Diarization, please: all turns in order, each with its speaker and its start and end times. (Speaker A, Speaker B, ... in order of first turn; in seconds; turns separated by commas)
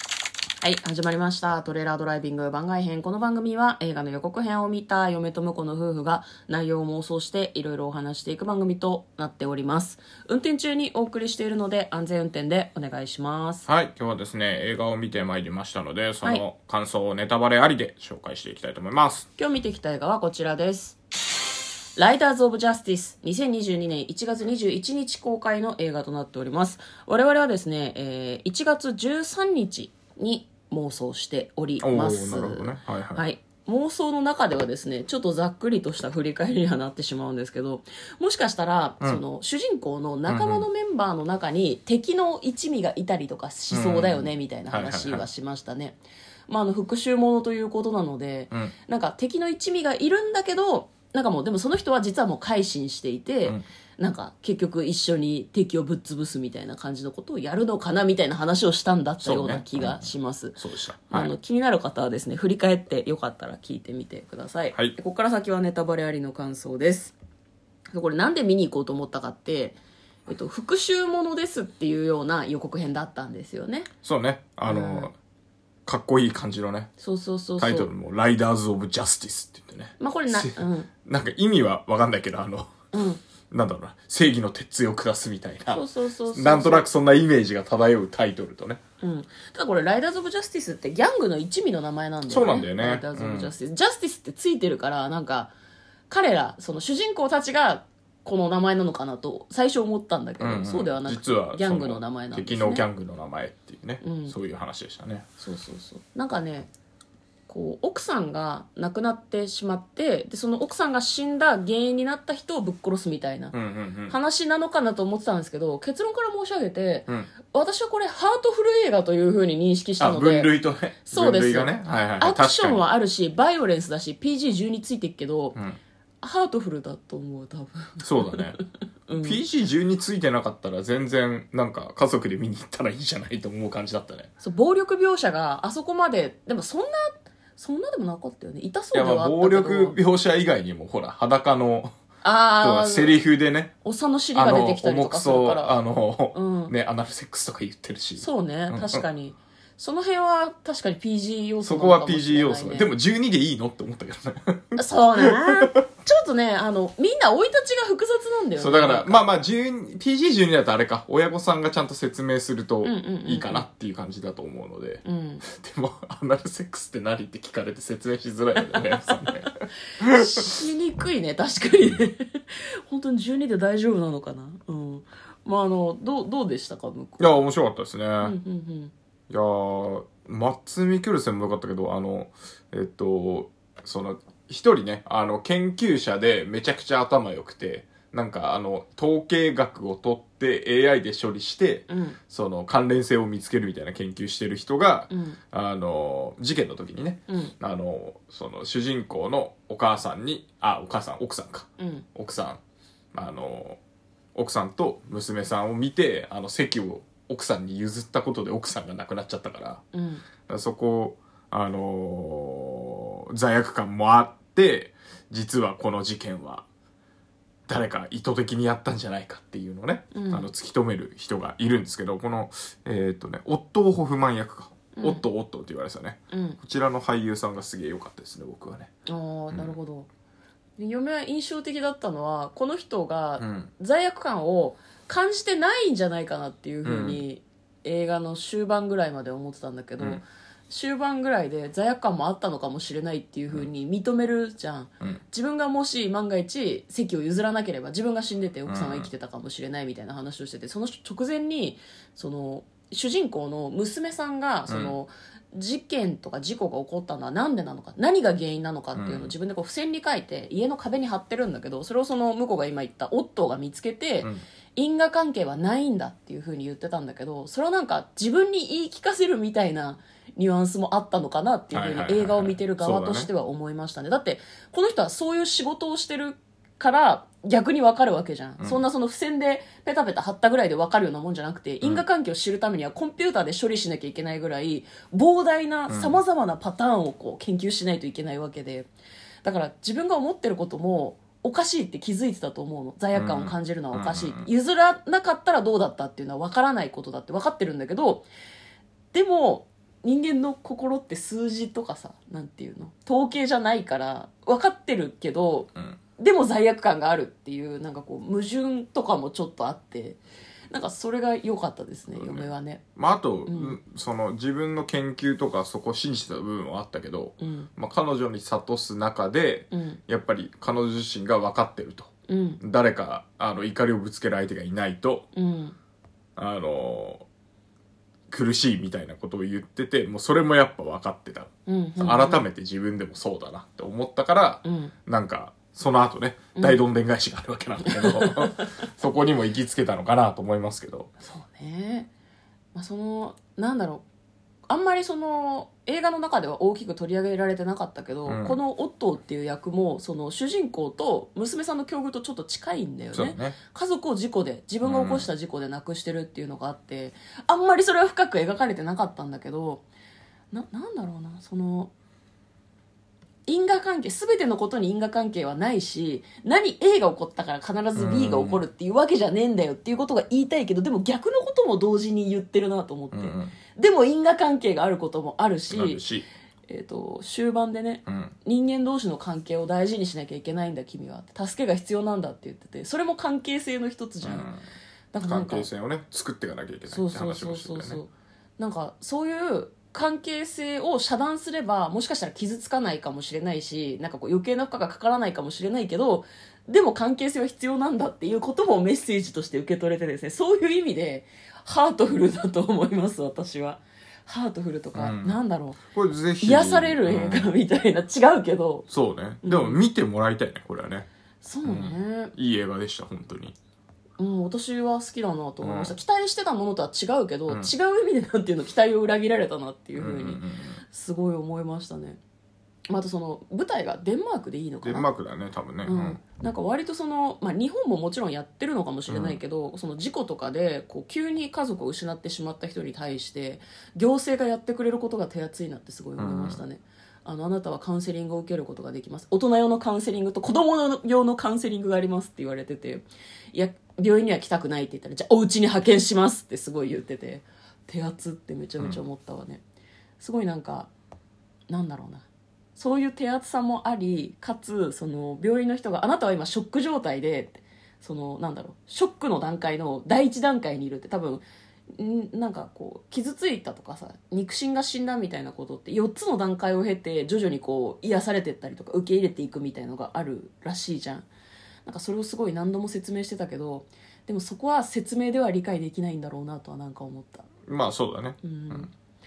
Speaker A: 0.6-13.7, Speaker B: 13.7-19.3, Speaker A: 19.4-21.0, Speaker A: 22.0-67.1, Speaker B: 31.8-33.2, Speaker B: 40.3-40.7, Speaker B: 43.7-45.3, Speaker B: 59.2-60.1, Speaker B: 60.6-61.3, Speaker A: 67.9-73.9, Speaker B: 74.0-75.1, Speaker A: 74.7-75.1, Speaker B: 75.9-76.9, Speaker A: 77.0-77.9, Speaker B: 77.6-82.7, Speaker A: 80.0-80.9, Speaker A: 82.9-83.2, Speaker B: 83.5-88.8, Speaker A: 85.7-86.9, Speaker A: 89.0-95.5, Speaker B: 92.3-93.5, Speaker A: 96.1-102.8, Speaker B: 100.4-105.3, Speaker A: 104.0-104.3, Speaker A: 105.4-106.7, Speaker A: 107.5-113.5, Speaker B: 113.5-114.2, Speaker A: 114.1-120.5, Speaker B: 120.0-122.8, Speaker A: 121.0-125.6, Speaker A: 126.2-128.6, Speaker B: 128.0-128.6, Speaker A: 129.1-129.4, Speaker B: 129.2-134.3, Speaker A: 134.4-140.0, Speaker B: 138.9-141.9, Speaker A: 142.2-143.3, Speaker B: 142.6-143.7, Speaker A: 143.8-145.8, Speaker B: 144.3-149.1, Speaker A: 146.3-146.7, Speaker A: 148.2-152.9, Speaker B: 151.6-155.8, Speaker A: 154.8-159.2, Speaker B: 158.6-170.6, Speaker A: 162.8-163.7, Speaker A: 165.0-165.4, Speaker A: 168.7-169.5, Speaker A: 170.0-177.4, Speaker B: 177.2-178.4, Speaker A: 178.2-178.9, Speaker B: 179.3-202.6, Speaker A: 191.9-192.2, Speaker A: 195.1-195.4, Speaker A: 201.8-202.1, Speaker B: 203.1-203.8, Speaker B: 204.3-209.8, Speaker A: 209.9-210.2, Speaker B: 210.5-216.7, Speaker B: 217.7-228.9, Speaker A: 220.1-220.5, Speaker A: 224.9-225.2, Speaker A: 226.3-226.6, Speaker A: 229.1-230.1, Speaker A: 230.8-288.9, Speaker B: 233.4-233.7, Speaker B: 236.8-237.2, Speaker B: 248.7-249.1, Speaker B: 254.7-255.0, Speaker B: 258.9-259.3, Speaker B: 271.7-273.3, Speaker B: 285.9-286.1, Speaker A: 289.4-298.3, Speaker B: 293.1-294.5, Speaker A: 299.1-310.2, Speaker A: 310.7-312.8, Speaker B: 312.2-325.3, Speaker A: 313.5-313.8, Speaker A: 317.4-317.7, Speaker A: 319.7-320.0, Speaker A: 322.3-322.6, Speaker A: 325.4-325.8, Speaker B: 326.4-327.3, Speaker B: 328.3-341.1, Speaker A: 331.7-332.4, Speaker A: 334.6-334.9, Speaker A: 337.8-338.7, Speaker A: 341.2-342.1, Speaker A: 342.8-344.0, Speaker A: 344.7-359.8, Speaker B: 348.3-348.6, Speaker B: 353.1-353.6, Speaker B: 354.8-355.3, Speaker A: 360.5-361.9, Speaker A: 363.5-376.0, Speaker B: 368.0-368.6, Speaker B: 373.1-373.5, Speaker B: 375.7-376.3, Speaker A: 376.7-384.5, Speaker B: 378.1-378.3, Speaker B: 384.2-384.6, Speaker A: 385.1-385.7, Speaker B: 385.2-388.0, Speaker A: 386.9-405.8, Speaker B: 404.9-405.4, Speaker B: 405.9-407.5, Speaker A: 406.4-408.9, Speaker B: 408.9-411.1, Speaker A: 409.4-409.8, Speaker A: 411.4-412.3, Speaker B: 411.6-413.6, Speaker A: 414.2-422.2, Speaker B: 415.6-415.9, Speaker B: 420.0-420.8, Speaker A: 422.9-425.1, Speaker B: 424.8-426.2, Speaker A: 425.8-449.6, Speaker B: 429.1-429.4, Speaker B: 436.2-436.6, Speaker A: 450.2-450.9, Speaker A: 451.7-471.3, Speaker A: 471.9-477.5, Speaker B: 477.7-478.9, Speaker A: 478.4-478.9